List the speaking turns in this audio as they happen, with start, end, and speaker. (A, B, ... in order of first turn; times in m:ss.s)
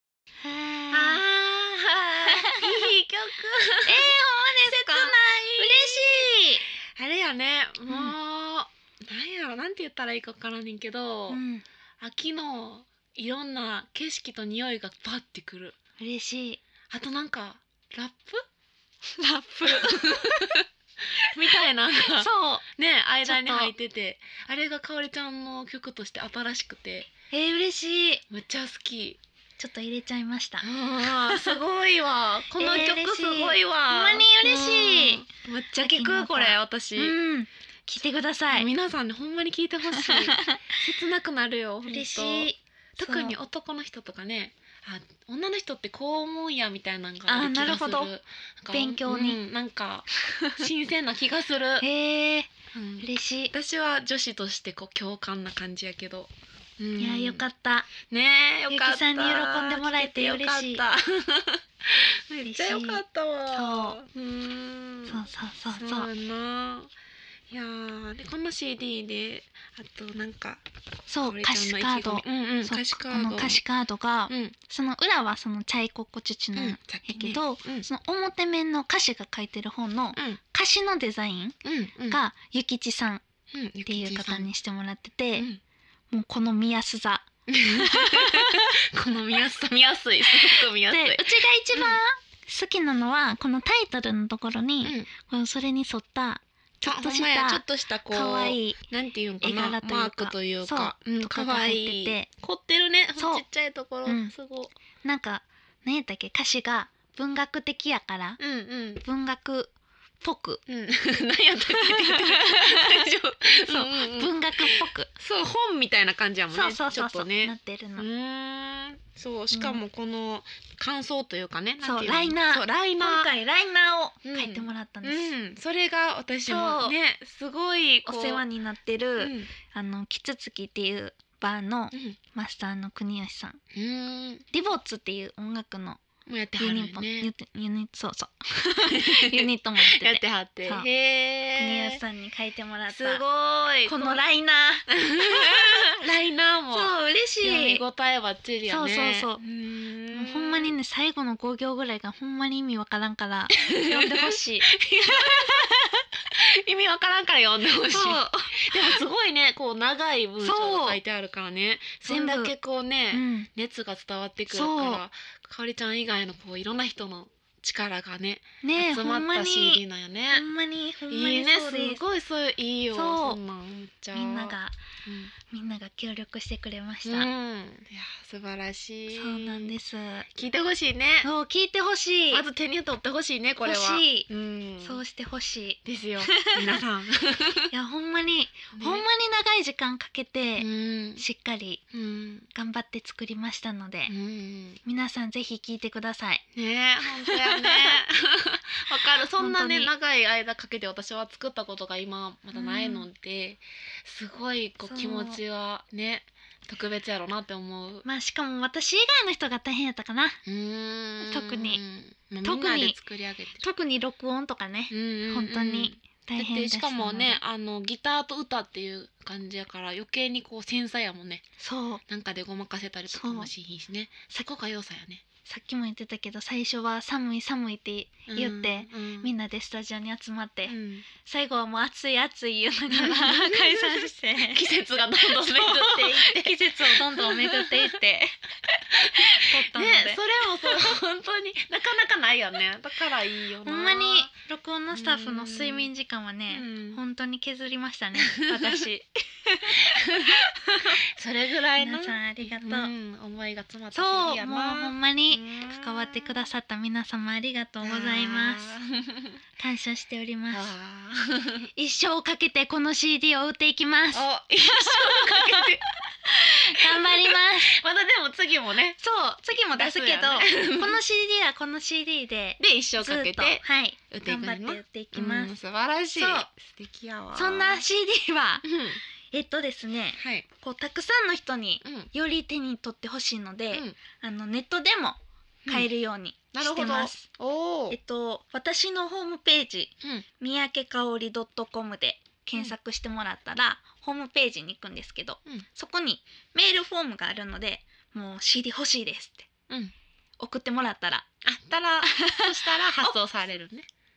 0:00.4-0:01.2 A
0:00.9-0:11.4 B
0:02.3-0:02.8 A
0:03.8-0:06.6 A
0:07.9-0:08.1 A
0:11.3-0:11.6 A
0:12.0-0:15.8 B
0:16.0-0:16.6 A
0:16.9-0:18.4 B
0:19.1-0:20.6 A
0:19.6-0:27.1 B
0:21.2-0:22.6 A
0:23.2-0:23.7 A
0:27.3-0:28.2 A
0:28.3-0:29.2 B
0:29.6-0:31.6 A
0:30.6-0:37.2 B
0:32.6-0:38.7 A
0:38.5-0:51.8 B
0:40.0-0:40.7 A
0:41.9-0:43.4 A
0:47.3-0:48.1 A
0:48.7-0:49.4 A
0:50.2-0:50.6 A
0:51.8-0:53.5 A
0:52.7-0:57.4 B
0:57.0-0:57.9 A
0:58.0-1:06.9 B
0:58.7-1:00.8 A
1:02.3-1:04.0 A
1:05.1-1:06.1 A
1:07.5-1:10.6 B
1:11.1-1:21.6 A
1:11.2-1:13.6 B
1:14.3-1:14.6 B
1:16.6-1:17.9 B
1:20.2-1:20.4 B
1:21.6-1:22.2 B
1:22.1-1:23.2 A
1:23.5-1:24.5 B
1:23.9-1:25.5 A
1:25.4-1:25.6 B
1:26.1-1:28.7 A
1:27.5-1:32.0 B
1:30.3-1:38.8 A
1:34.8-1:35.1 B
1:36.8-1:44.7 B
1:39.4-1:42.3 A
1:43.2-1:43.4 A
1:44.0-1:44.3 A
1:45.0-1:48.4 A
1:48.4-1:49.0 B
1:49.0-1:50.6 A
1:50.7-2:03.3 B
1:51.7-1:53.1 A
1:53.7-1:55.1 A
1:56.5-1:58.1 A
1:59.5-1:59.8 A
2:01.8-2:05.3 A
2:04.2-2:08.4 B
2:06.5-2:07.0 A
2:08.0-2:13.6 A
2:09.2-2:09.5 B
2:11.9-2:12.2 B
2:13.7-2:14.5 B
2:14.5-2:16.0 A
2:16.3-2:17.3 B
2:16.6-2:20.9 A
2:18.9-2:22.0 B
2:21.6-2:23.2 A
2:22.9-2:24.2 B
2:23.8-2:26.0 A
2:24.9-2:30.7 B
2:26.7-2:27.8 A
2:28.7-2:29.4 A
2:30.1-2:36.0 A
2:33.6-2:35.7 B
2:36.3-2:50.5 B
2:37.8-2:39.0 A
2:40.4-2:41.0 A
2:42.1-2:42.5 A
2:43.1-2:43.5 A
2:44.5-2:45.0 A
2:48.6-2:52.0 A
2:51.1-2:55.3 B
2:52.9-2:53.4 A
2:54.1-2:54.8 A
2:55.5-2:57.3 A
2:57.0-2:59.7 B
2:59.1-3:00.3 A
3:00.3-3:01.3 B
3:01.2-3:02.4 A
3:02.3-3:05.0 B
3:03.6-3:04.3 A
3:04.8-3:06.8 A
3:05.8-3:07.7 B
3:07.7-3:11.8 A
3:08.7-3:09.1 B
3:10.6-3:11.2 B
3:11.9-3:12.5 B
3:12.5-3:14.1 A
3:14.1-3:14.8 B
3:14.8-3:16.4 A
3:16.6-3:28.1 B
3:17.0-3:18.0 A
3:19.4-3:19.9 A
3:22.5-3:23.1 A
3:24.8-3:25.4 A
3:28.0-3:30.4 A
3:30.4-3:33.6 B
3:31.2-3:31.8 A
3:32.4-3:33.0 A
3:33.6-3:37.4 A
3:34.9-3:41.4 B
3:41.6-3:42.0 A
3:42.1-3:45.2 B
3:43.1-3:43.5 A
3:45.4-3:54.7 A
3:48.3-3:49.3 B
3:50.7-3:51.1 B
3:52.9-3:58.0 B
3:55.2-4:00.9 A
3:59.0-4:04.3 B
4:03.7-4:11.0 A
4:04.9-4:05.9 B
4:06.5-4:07.0 B
4:08.2-4:08.8 B
4:09.8-4:10.5 B
4:11.0-4:16.5 B
4:11.8-4:12.9 A
4:13.9-4:18.8 A
4:17.8-4:19.4 B
4:19.6-4:20.7 A
4:20.5-4:21.7 B
4:21.8-4:25.7 A
4:24.1-4:25.8 B
4:26.2-4:27.8 A
4:26.8-4:29.0 B
4:29.0-4:35.5 A
4:29.8-4:31.0 B
4:32.6-4:37.8 B
4:36.2-4:36.5 A
4:37.4-4:38.7 A
4:38.6-4:39.0 B
4:39.3-4:47.3 A
4:40.2-4:40.5 B
4:41.8-4:42.1 B
4:43.7-4:44.0 B
4:46.5-4:48.0 B
4:47.9-4:59.5 A
4:59.7-4:59.9 B
5:00.4-5:01.3 A
5:01.4-5:03.9 B
5:02.1-5:03.2 A